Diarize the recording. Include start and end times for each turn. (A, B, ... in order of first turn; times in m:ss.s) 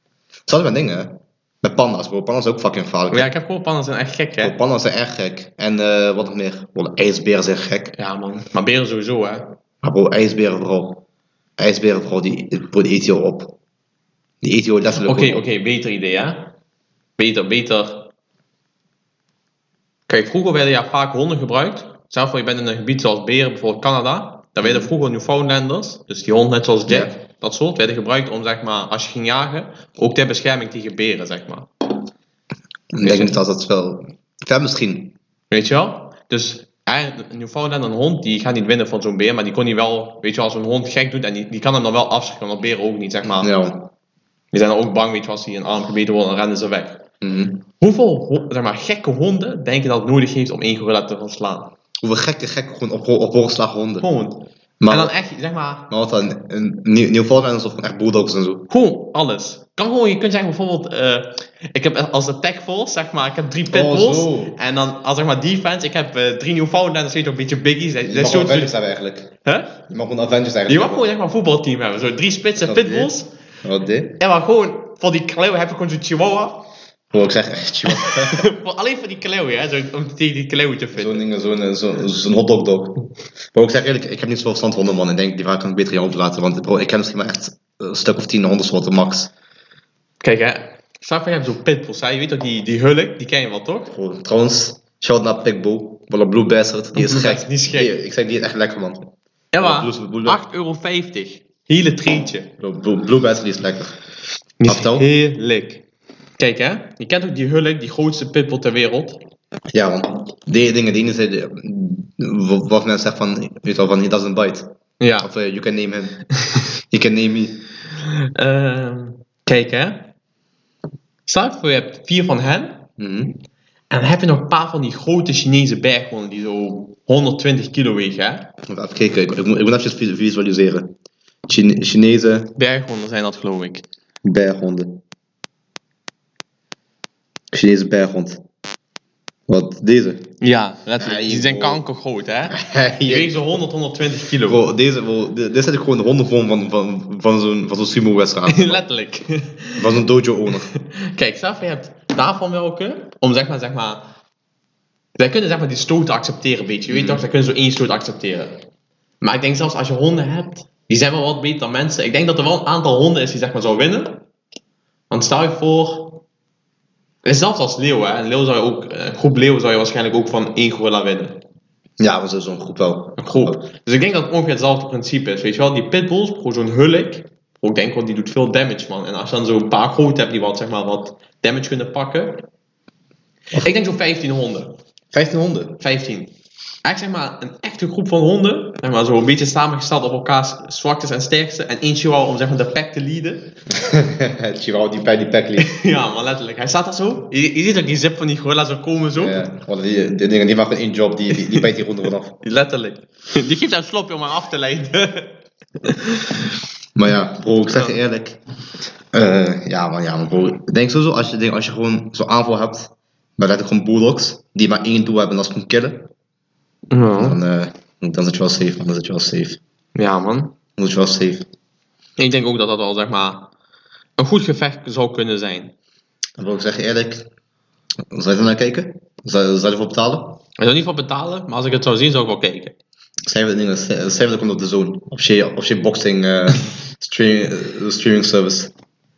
0:00.5-0:03.3 A
0:03.1-0:04.6 B
0:04.4-0:07.9 A
0:08.0-0:09.6 B
0:09.8-0:11.0 A
0:11.6-0:13.6 A
0:14.4-0:15.4 A
0:15.0-0:16.5 B
0:17.2-0:18.1 B
0:20.1-0:31.7 B
0:24.6-0:24.9 A
0:26.9-0:27.1 A
0:32.9-0:35.1 A
0:33.0-0:33.4 B
0:35.5-0:43.5 B
0:43.4-0:43.9 A
0:44.5-0:47.0 B
0:47.2-0:47.6 A
0:47.8-0:51.7 B
0:52.0-0:54.1 A
0:54.0-0:55.9 B
0:54.8-0:55.1 A
0:55.9-0:58.7 A
0:58.7-1:08.8 B
1:03.7-1:04.6 A
1:08.0-1:09.3 A
1:09.4-1:09.8 B
1:09.9-1:11.0 A
1:10.7-1:13.3 B
1:12.6-1:13.1 A
1:13.6-1:14.2 A
1:14.2-1:16.7 B
1:17.1-1:18.4 A
1:17.9-1:21.2 B
1:20.9-1:23.0 A
1:23.5-1:29.3 A
1:30.2-1:33.9 B
1:33.9-1:39.1 A
1:36.9-1:37.9 B
1:39.5-1:42.5 B
1:39.6-1:40.4 A
1:42.6-1:44.0 A
1:44.6-1:45.8 B
1:44.7-1:45.1 A
1:46.4-1:49.2 B
1:49.7-1:56.2 A
1:55.0-1:55.3 B
1:56.9-1:57.6 A
1:58.0-2:00.1 B
2:01.3-2:02.9 B
2:03.0-2:03.4 A
2:03.9-2:08.5 B
2:08.7-2:11.0 A
2:11.5-2:12.5 A
2:12.6-2:13.8 B
2:14.2-2:15.0 A
2:17.5-2:18.4 A
2:19.5-2:20.3 A
2:20.4-2:24.7 B
2:21.0-2:21.8 A
2:22.5-2:23.6 A
2:24.4-2:28.8 A
2:28.5-2:30.0 B
2:29.8-2:30.7 A
2:30.7-2:34.0 B
2:35.2-2:38.6 B
2:36.9-2:37.2 A
2:39.2-2:44.2 B
2:45.1-2:46.2 B
2:47.2-2:51.4 B
2:52.0-2:53.7 A
2:53.2-3:02.5 B
3:03.6-3:04.8 B
3:05.1-3:05.8 A
3:05.8-3:06.3 B
3:06.8-3:13.5 B
3:13.7-3:15.7 A
3:15.6-3:19.4 B
3:19.2-3:22.4 A
3:21.3-3:21.7 B
3:22.4-3:26.5 B
3:27.0-3:28.4 A
3:27.7-3:28.0 B
3:29.1-3:36.1 A
3:36.9-3:37.4 B
3:37.2-3:39.6 A
3:40.0-3:40.6 B
3:40.8-3:41.5 A
3:42.2-3:43.5 B
3:44.2-3:45.7 B
3:46.4-3:47.3 A
3:48.1-3:50.4 A
3:50.6-3:52.8 B
3:53.3-3:58.7 A